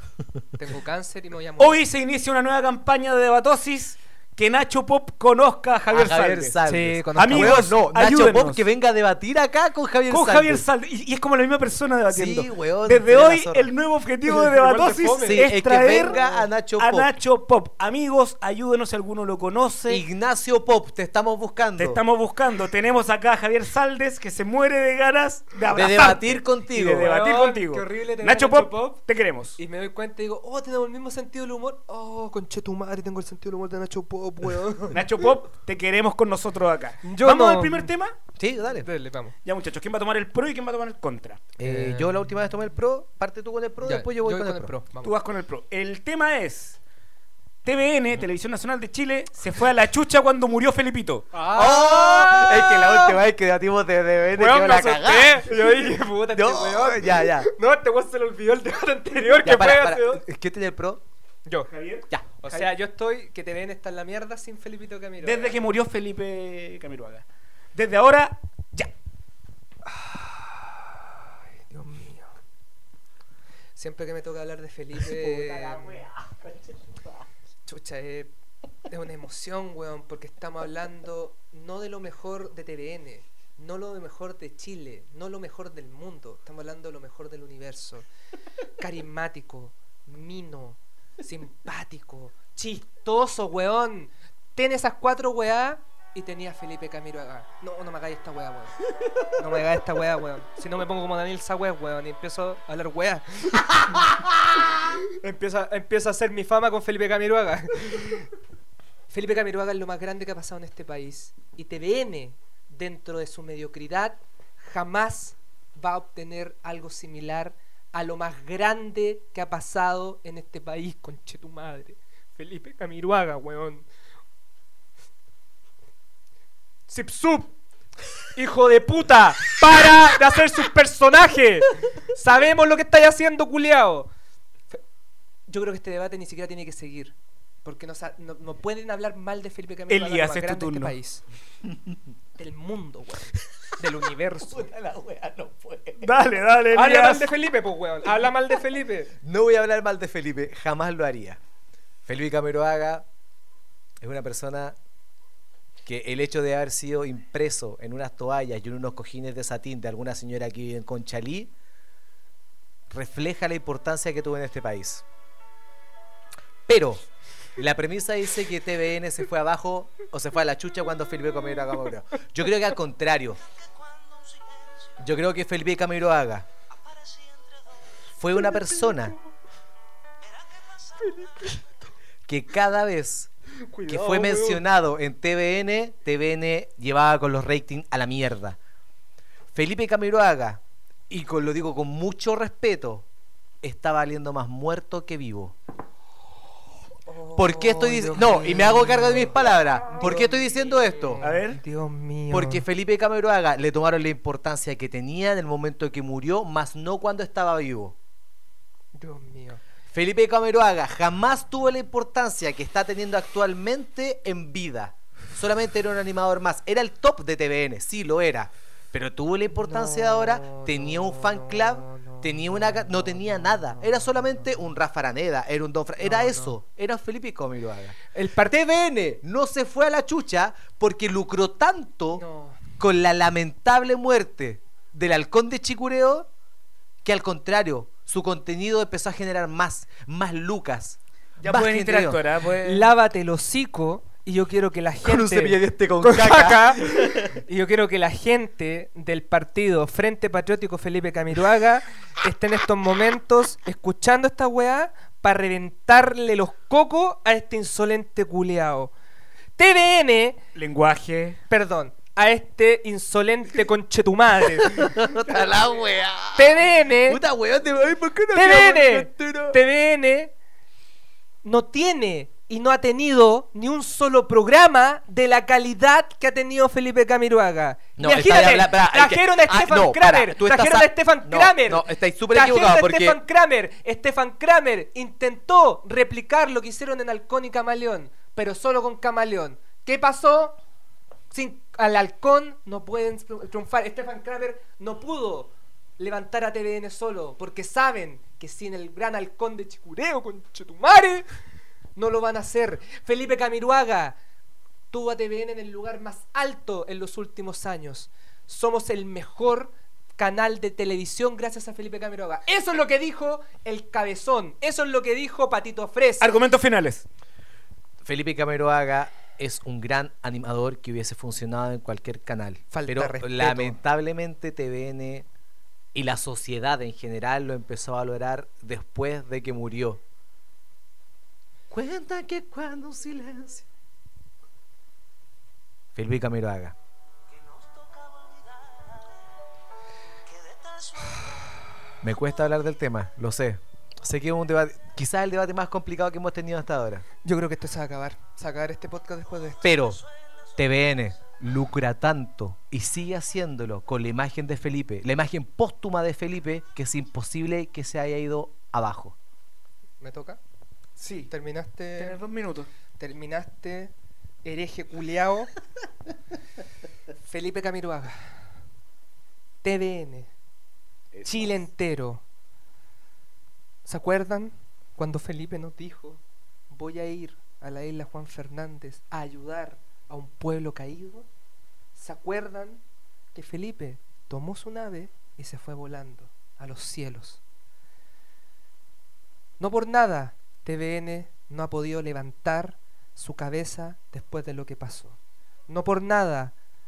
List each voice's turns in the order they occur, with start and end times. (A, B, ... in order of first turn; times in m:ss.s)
0:00.5-0:01.8 A
0:01.6-0:06.6 B
0:05.9-0:10.6 C
0:06.6-0:07.7 A
0:07.2-0:08.6 B
0:10.1-0:20.0 B
0:12.1-0:13.7 C
0:14.3-0:16.4 A
0:15.2-0:17.1 C
0:19.9-0:22.0 C
0:21.8-0:29.6 B
0:25.7-0:27.1 C
0:26.9-0:29.0 A
0:29.6-0:35.0 A
0:34.9-0:38.2 B
0:37.0-0:37.9 A
0:38.4-0:38.9 C
0:38.7-0:39.3 A
0:39.4-0:41.4 B
0:41.6-0:44.7 C
0:41.6-0:42.2 A
0:43.8-0:45.1 A
0:45.0-0:46.8 B
0:47.6-0:51.3 B
0:51.3-0:53.2 A
0:51.5-0:57.5 C
0:54.3-1:00.2 A
0:59.4-1:01.0 C
1:01.7-1:02.7 B
1:02.4-1:05.6 A
1:05.2-1:08.9 B
1:09.8-1:12.3 A
1:13.8-1:16.0 A
1:15.0-1:17.1 B
1:17.6-1:18.3 A
1:18.9-1:28.1 A
1:28.8-1:38.8 A
1:39.3-1:44.2 A
1:44.7-1:48.3 A
1:49.1-2:03.8 A
2:06.9-2:07.6 A
2:08.3-2:14.1 A
2:15.5-2:21.2 A
2:19.9-2:21.0 B
2:22.4-2:24.7 A
2:24.6-2:26.1 C
2:26.0-2:27.3 B
2:26.7-2:29.1 A
2:29.2-2:31.4 C
2:32.0-2:33.0 C
2:34.0-2:34.8 C
2:35.8-2:41.5 C
2:42.9-2:45.0 C
2:46.7-2:47.0 C
2:47.6-2:53.4 C
2:55.0-2:56.5 C
2:58.1-2:59.2 C
3:01.0-3:01.6 A
3:02.2-3:03.3 C
3:03.6-3:04.6 A
3:03.9-3:08.6 C
3:09.5-3:13.1 C
3:13.6-3:15.5 C
3:17.1-3:22.6 A
3:17.3-3:21.2 C
3:21.2-3:21.6 B
3:22.3-3:28.0 C
3:29.0-3:29.6 A
3:29.9-3:48.0 C
3:39.6-3:44.6 A
3:46.0-3:46.6 A
3:48.1-3:48.7 A
3:48.5-3:52.2 C
3:52.1-3:52.6 A
3:52.8-3:56.3 C
3:57.0-4:02.2 C
4:01.4-4:02.9 B
4:02.6-4:18.9 A
4:05.0-4:07.4 C
4:19.6-4:20.4 A
4:20.5-4:21.4 B
4:21.5-4:25.0 A
4:24.6-4:29.6 C
4:26.4-4:27.2 A
4:28.3-4:30.3 A
4:31.4-4:50.6 A
4:38.0-4:43.2 C
4:51.3-5:01.3 A
5:02.0-5:04.2 A
5:04.9-5:16.4 A
5:16.2-5:17.0 B
5:18.0-5:25.3 C
5:22.7-5:23.8 A
5:25.9-5:30.0 C
5:31.7-5:33.7 C
5:35.9-5:36.8 C
5:42.0-5:47.0 C
5:47.2-5:49.6 A
5:49.6-5:50.0 C
5:50.6-5:59.2 C
6:00.0-6:00.4 A
6:01.0-6:01.3 B
6:01.3-6:02.2 A
6:02.0-6:02.7 B
6:03.0-6:03.9 A
6:04.4-6:05.5 A
6:07.2-6:08.3 A
6:09.6-6:10.3 A
6:11.1-6:11.6 B
6:11.2-6:12.2 A
6:13.8-6:21.3 A
6:21.9-6:22.8 A
6:23.3-6:27.4 A
6:29.6-6:35.2 A
6:35.7-6:36.5 A